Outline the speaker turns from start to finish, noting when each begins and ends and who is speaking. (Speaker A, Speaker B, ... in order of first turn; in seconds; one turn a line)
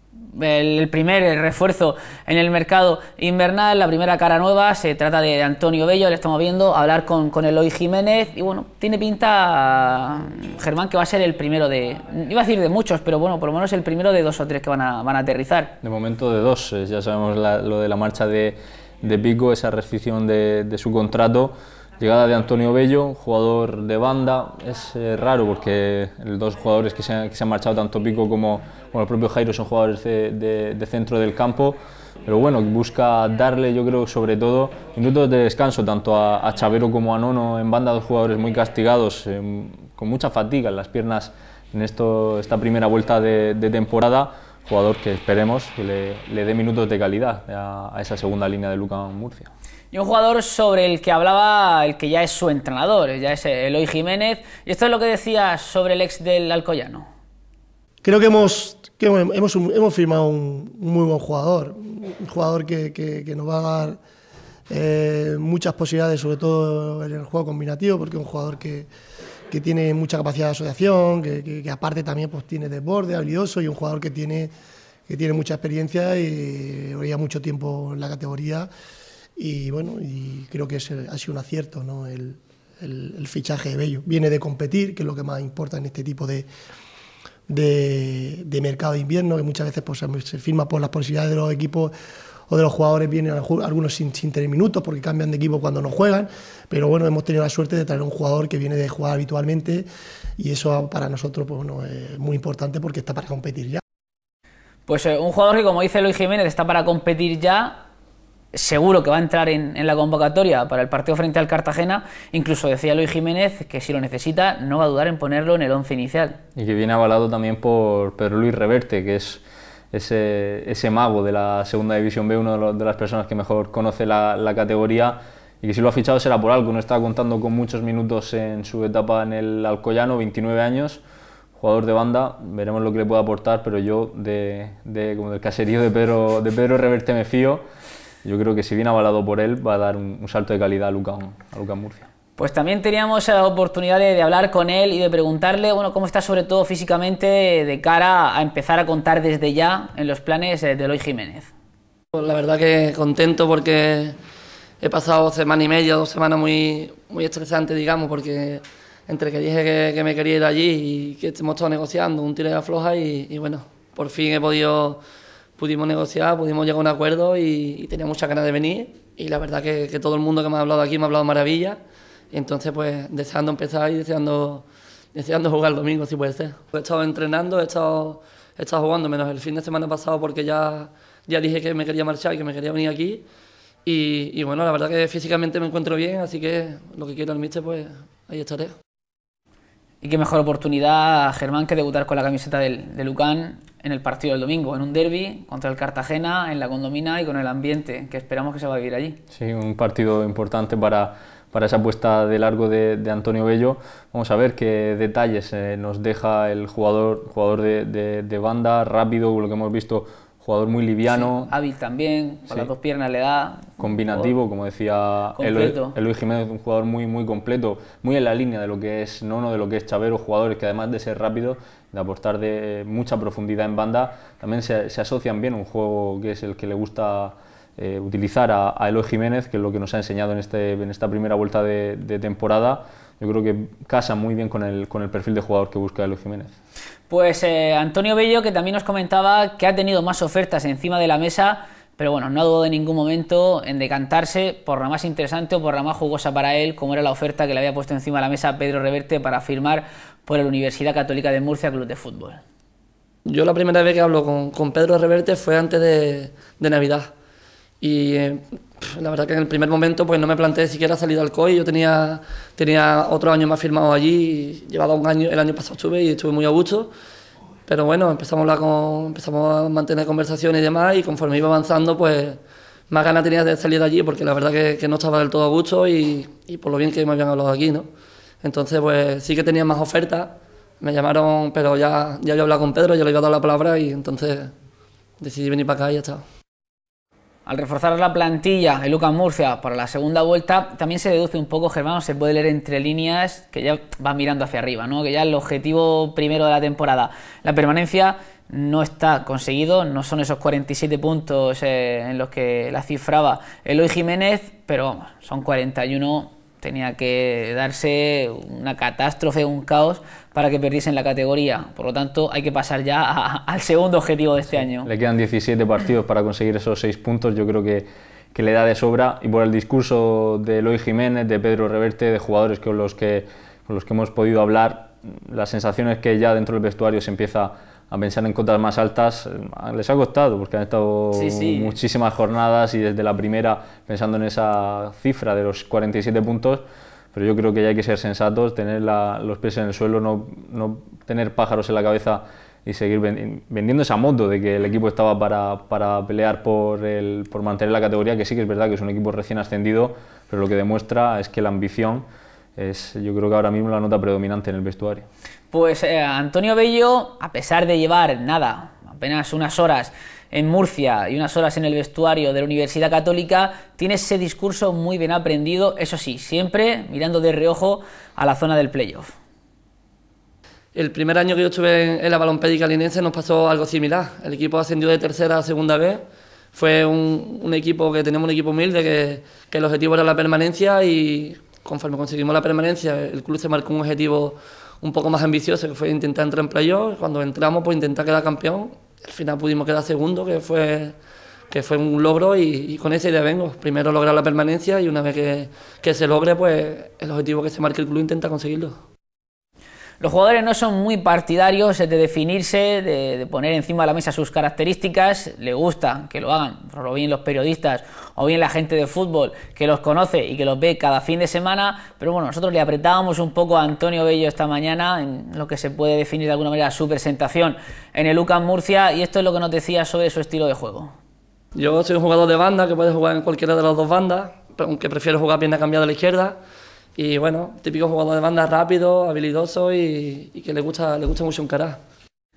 Speaker A: 0.3-15.7
Speaker B: 15.8-49.5
Speaker A: 49.9-57.1
Speaker C: 58.0-64.0
Speaker C: 64.7-68.9
Speaker C: 69.5-74.5
Speaker C: 75.1-78.7
Speaker C: 79.4-86.5
Speaker C: 87.5-91.9
Speaker C: 92.5-99.9
Speaker C: 100.4-103.8
Speaker A: 104.9-107.8
Speaker A: 108.5-116.4
Speaker B: 116.5-119.4
Speaker B: 119.9-131.0
Speaker B: 131.6-137.6
Speaker B: 138.2-142.1
Speaker A: 142.4-151.5
Speaker D: 152.2-154.2
Speaker D: 154.8-165.0
Speaker D: 165.6-171.8
Speaker D: 172.3-183.2
Speaker D: 183.9-188.8
Speaker A: 190.0-199.2
Speaker B: 199.3-211.5
Speaker A: 211.1-214.3
Speaker B: 213.8-236.5
Speaker A: 215.4-216.0
Speaker A: 237.1-252.4
Speaker D: 253.3-257.1
Speaker D: 257.8-266.9
Speaker D: 267.7-277.9
Speaker D: 278.4-284.5
Speaker D: 285.2-286.2
Speaker A: 287.5-314.9
Speaker B: 314.8-352.1
Speaker A: 331.1-331.7
Speaker B: 352.6-355.1
Speaker A: 355.5-369.1
Speaker D: 370.8-376.0
Speaker D: 376.5-391.0
Speaker D: 391.5-398.8
Speaker A: 400.0-420.9
Speaker D: 421.6-426.4
Speaker D: 427.0-431.8